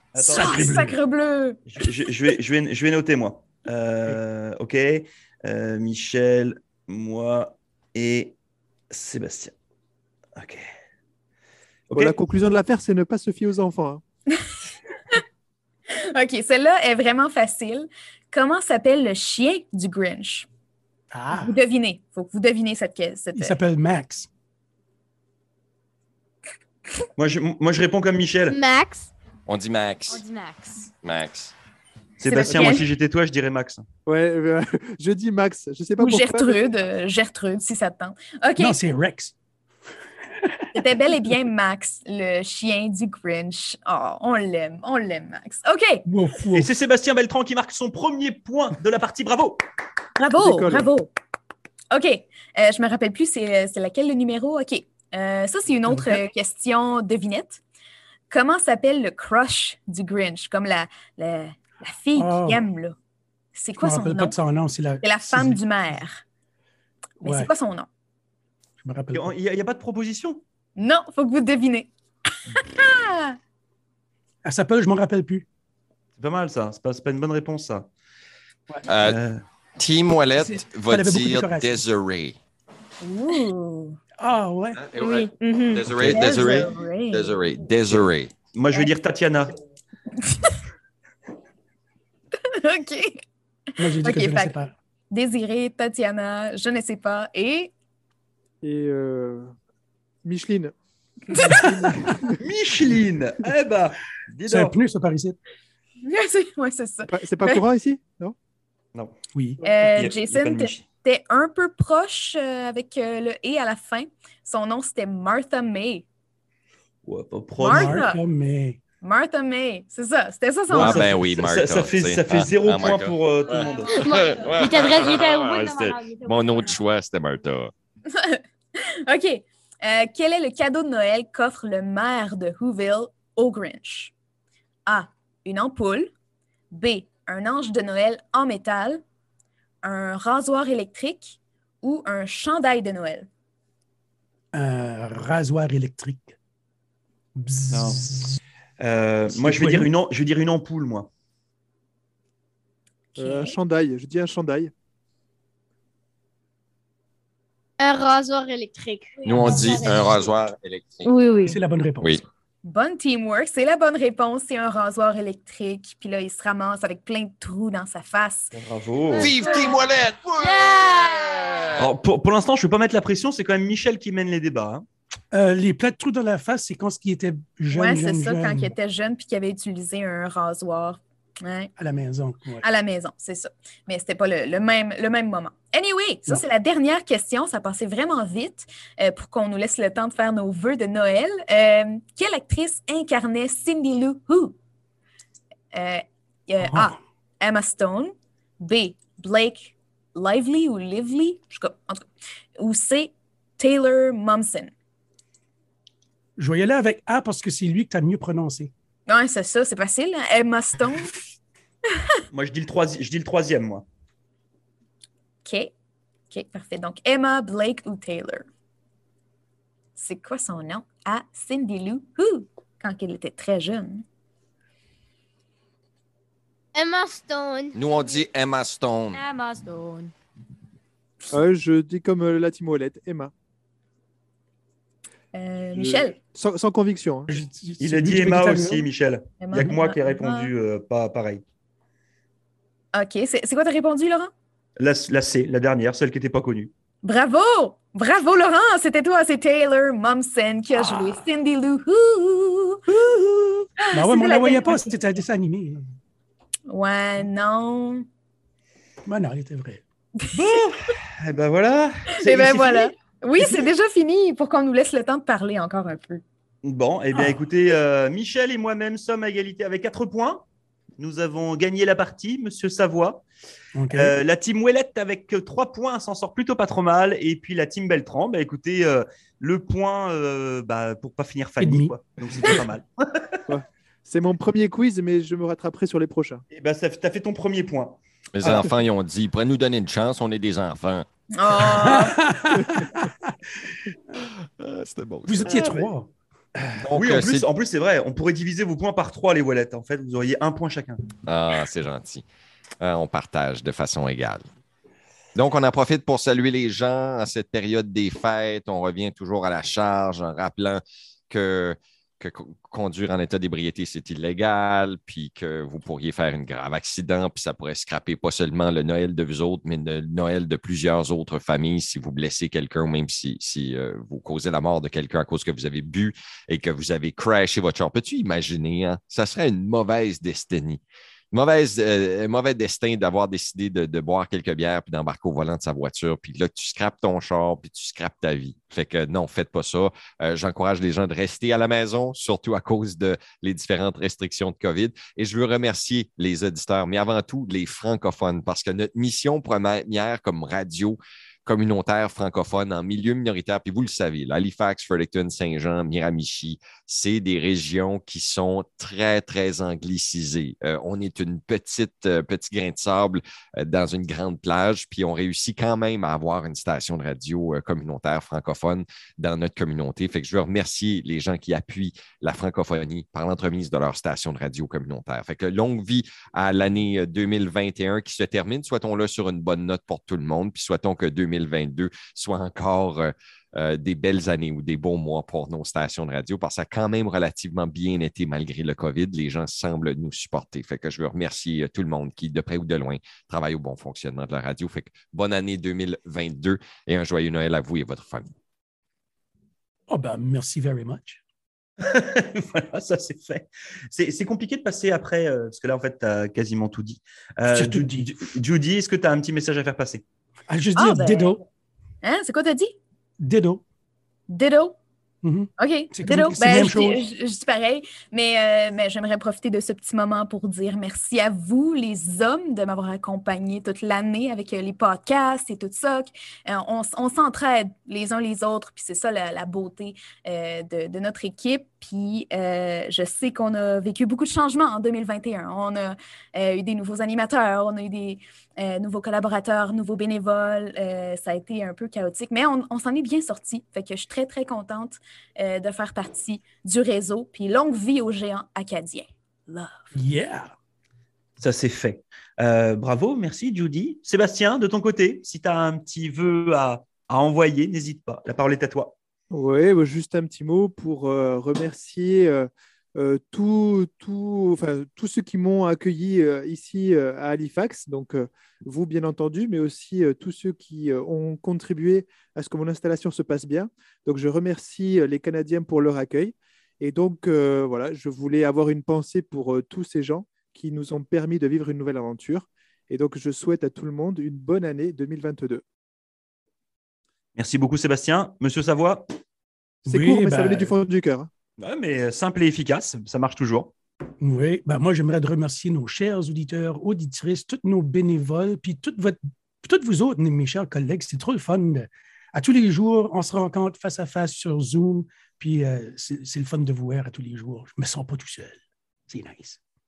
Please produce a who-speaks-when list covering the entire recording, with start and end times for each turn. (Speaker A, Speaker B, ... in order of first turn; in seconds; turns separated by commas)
Speaker A: 0.1-0.8, Speaker B: 0.1-1.0, Speaker C: 0.4-1.6, Speaker A: 1.7-8.3, Speaker A: 8.9-9.5, Speaker A: 10.3-10.7, Speaker A: 11.9-12.2, Speaker D: 11.9-14.0, Speaker C: 16.0-20.5, Speaker B: 21.1-21.5, Speaker C: 21.3-23.6, Speaker B: 23.3-24.3, Speaker A: 27.2-28.6, Speaker E: 28.5-29.1, Speaker F: 29.5-30.2, Speaker G: 30.1-30.9, Speaker F: 31.0-31.5, Speaker A: 32.2-33.8, Speaker C: 32.2-32.9, Speaker D: 34.0-36.6, Speaker C: 36.0-38.8, Speaker B: 38.6-39.3, Speaker B: 40.4-40.6, Speaker C: 40.7-46.0, Speaker B: 46.1-46.7, Speaker A: 46.5-49.6, Speaker C: 50.2-51.1, Speaker D: 50.4-50.9, Speaker C: 51.9-57.6, Speaker B: 55.9-56.2, Speaker C: 58.3-63.0, Speaker B: 62.1-62.6, Speaker C: 63.5-64.4, Speaker B: 63.8-65.6, Speaker C: 65.0-66.2, Speaker B: 67.2-67.5, Speaker C: 67.2-67.9, Speaker B: 68.8-69.3, Speaker A: 69.1-70.4, Speaker C: 70.8-71.9, Speaker C: 72.5-73.3, Speaker B: 74.4-75.5, Speaker A: 76.2-77.9, Speaker F: 78.9-79.2, Speaker A: 79.0-79.4, Speaker F: 79.8-82.4, Speaker B: 80.4-81.7, Speaker C: 83.0-84.0, Speaker B: 84.2-84.8, Speaker F: 84.8-88.3, Speaker G: 85.0-85.9, Speaker C: 86.0-87.4, Speaker A: 88.5-89.5, Speaker C: 90.2-90.5, Speaker C: 92.5-93.2, Speaker B: 93.8-94.7, Speaker C: 93.9-94.5, Speaker C: 95.1-97.7, Speaker D: 98.6-99.5, Speaker D: 100.2-100.7, Speaker C: 101.3-101.7, Speaker D: 101.4-102.4, Speaker A: 102.4-104.8, Speaker B: 104.5-105.4, Speaker C: 106.0-107.6, Speaker D: 107.1-108.3, Speaker B: 109.3-109.6, Speaker C: 109.6-116.0, Speaker A: 109.9-110.8, Speaker A: 117.0-118.0, Speaker C: 117.6-118.2, Speaker B: 117.7-118.8, Speaker C: 119.0-121.1, Speaker A: 120.7-124.1, Speaker F: 120.7-127.7, Speaker G: 124.2-126.8, Speaker C: 128.1-128.4, Speaker C: 129.0-134.1, Speaker C: 134.8-136.1, Speaker C: 136.7-139.0, Speaker C: 139.8-143.3, Speaker B: 144.5-146.3, Speaker B: 147.3-148.4, Speaker A: 147.7-148.0, Speaker A: 148.8-151.1, Speaker B: 149.3-149.9, Speaker C: 153.2-153.6, Speaker D: 153.2-154.7, Speaker E: 157.8-160.2, Speaker F: 159.2-161.1, Speaker B: 159.4-160.1, Speaker G: 161.0-161.6, Speaker B: 161.4-162.2, Speaker C: 162.6-168.5, Speaker A: 168.5-169.3, Speaker F: 169.2-171.9, Speaker E: 169.2-169.8, Speaker E: 170.4-171.3, Speaker A: 171.8-174.8, Speaker B: 175.3-178.7, Speaker C: 177.7-181.7, Speaker B: 181.8-182.6, Speaker C: 182.6-194.5, Speaker C: 195.7-202.1, Speaker B: 196.6-196.9, Speaker C: 202.6-204.7, Speaker B: 206.4-208.7, Speaker C: 209.1-211.2, Speaker A: 212.3-213.8, Speaker C: 215.4-215.7, Speaker C: 216.3-218.4, Speaker C: 220.0-224.0, Speaker E: 226.7-227.8, Speaker F: 227.7-229.2, Speaker G: 229.1-230.1, Speaker D: 231.3-233.3, Speaker C: 235.3-236.2, Speaker D: 235.7-237.3, Speaker B: 237.3-238.9, Speaker A: 237.8-241.4, Speaker C: 239.4-240.5, Speaker C: 242.9-244.3, Speaker A: 244.8-246.7, Speaker C: 247.0-252.8, Speaker C: 253.8-254.8, Speaker B: 253.9-255.8, Speaker C: 256.7-258.0, Speaker B: 259.1-259.8, Speaker A: 260.3-262.9, Speaker C: 262.2-266.2, Speaker A: 266.6-270.4, Speaker B: 267.1-267.4, Speaker A: 271.0-273.2, Speaker B: 273.7-274.1, Speaker A: 273.9-283.4, Speaker B: 281.6-282.0, Speaker D: 283.5-286.4, Speaker A: 286.5-288.6, Speaker F: 288.3-291.1, Speaker D: 288.4-288.7, Speaker C: 291.3-292.2, Speaker B: 291.6-293.1, Speaker D: 292.5-292.9, Speaker F: 294.1-295.5, Speaker B: 295.2-296.7, Speaker A: 295.4-295.9, Speaker F: 296.8-297.5, Speaker A: 296.9-301.0, Speaker F: 301.2-302.2, Speaker F: 302.8-304.4, Speaker F: 305.3-398.3, Speaker B: 399.9-401.2, Speaker A: 401.8-410.0, Speaker B: 407.5-408.1, Speaker B: 410.5-411.4, Speaker C: 410.7-411.4, Speaker C: 412.0-412.7, Speaker B: 413.2-413.6, Speaker C: 414.3-414.7, Speaker B: 415.2-417.0, Speaker C: 415.6-449.9, Speaker B: 449.9-450.5, Speaker A: 451.4-458.9, Speaker D: 459.3-485.6, Speaker A: 487.4-489.1, Speaker B: 489.9-490.7, Speaker D: 489.9-491.3, Speaker A: 491.6-493.7, Speaker B: 494.2-509.6